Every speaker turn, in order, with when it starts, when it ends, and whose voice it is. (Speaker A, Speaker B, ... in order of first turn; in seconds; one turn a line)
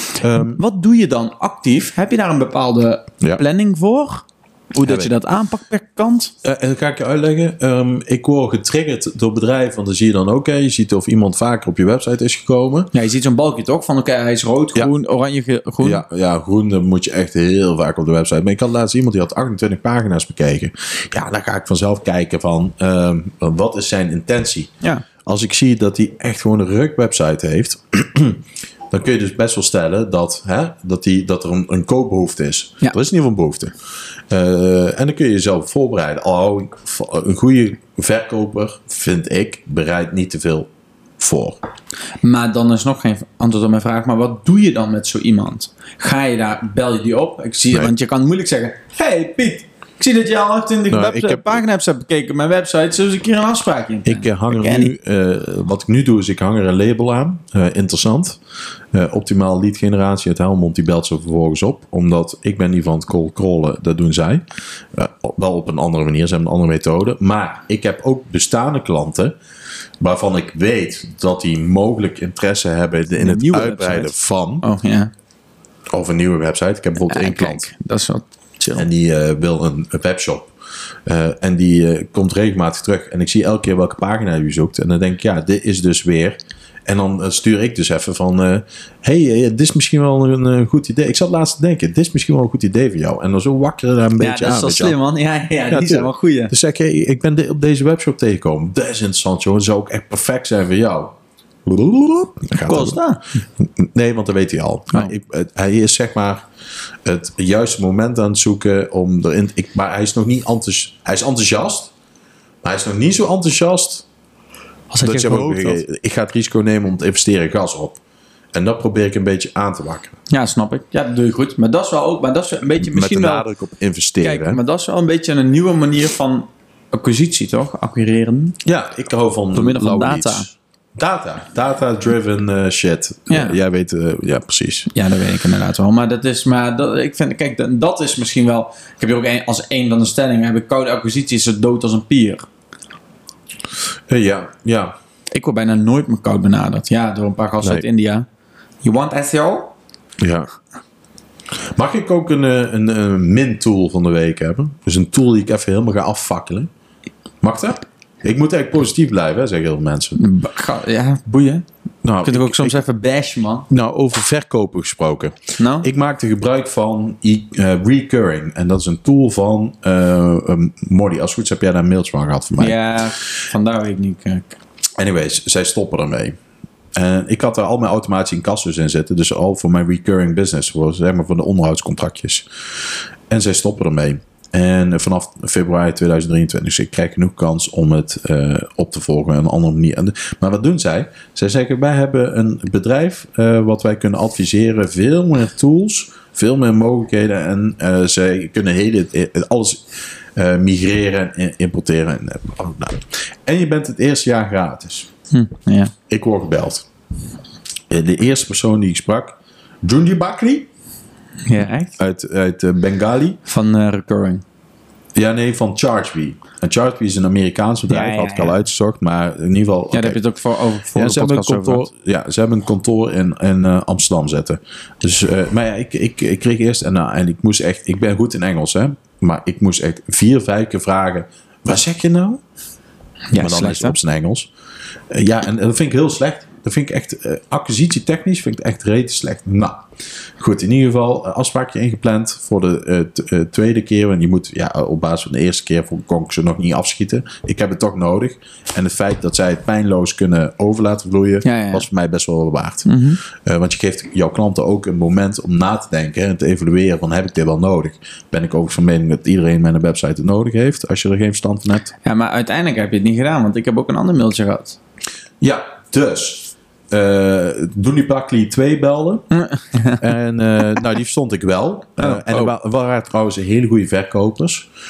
Speaker A: 0.2-0.6
Speaker B: 0.4-6.3
Speaker A: 4.8-5.1
Speaker A: 6.4-12.9
Speaker B: 12.9-16.0
Speaker A: 15.8-24.7
Speaker A: 25.2-33.8
Speaker A: 34.3-41.6
Speaker B: 42.2-54.9
Speaker A: 50.9-51.6
Speaker A: 54.0-58.4
Speaker A: 58.9-69.3
Speaker A: 70.0-74.7
Speaker B: 73.2-75.1
Speaker A: 75.9-77.7
Speaker B: 77.1-78.8
Speaker A: 78.7-80.5
Speaker A: 81.1-95.0
Speaker B: 94.2-96.5
Speaker A: 95.7-103.0
Speaker B: 102.6-103.2
Speaker A: 103.6-106.5
Speaker A: 107.0-111.9
Speaker A: 112.6-114.1
Speaker B: 114.9-115.8
Speaker A: 115.0-118.0
Speaker A: 118.5-120.2
Speaker B: 120.3-123.5
Speaker A: 122.8-124.6
Speaker B: 124.2-128.6
Speaker A: 128.6-134.9
Speaker B: 129.5-130.5
Speaker B: 133.3-133.6
Speaker B: 134.9-142.4
Speaker A: 144.1-144.9
Speaker B: 145.3-148.3
Speaker B: 148.8-149.7
Speaker A: 150.2-150.5
Speaker A: 151.7-156.7
Speaker A: 157.4-160.2
Speaker B: 160.2-161.7
Speaker A: 162.0-162.7
Speaker B: 162.2-163.7
Speaker A: 163.7-172.8
Speaker B: 165.6-165.9
Speaker B: 172.6-174.6
Speaker A: 175.0-176.4
Speaker A: 176.9-205.1
Speaker B: 205.3-205.9
Speaker A: 206.1-206.9
Speaker A: 207.9-210.7
Speaker B: 211.5-211.9
Speaker A: 212.0-213.4
Speaker B: 213.5-214.4
Speaker A: 215.2-220.2
Speaker B: 217.9-218.6
Speaker B: 219.9-221.9
Speaker A: 220.9-232.4
Speaker B: 233.3-234.0
Speaker A: 233.3-234.5
Speaker A: 235.1-239.8
Speaker A: 240.4-261.9
Speaker B: 251.4-251.9
Speaker B: 252.8-253.2
Speaker B: 262.0-264.8
Speaker A: 265.4-269.2
Speaker B: 269.3-270.0
Speaker A: 269.9-274.7
Speaker B: 272.0-272.5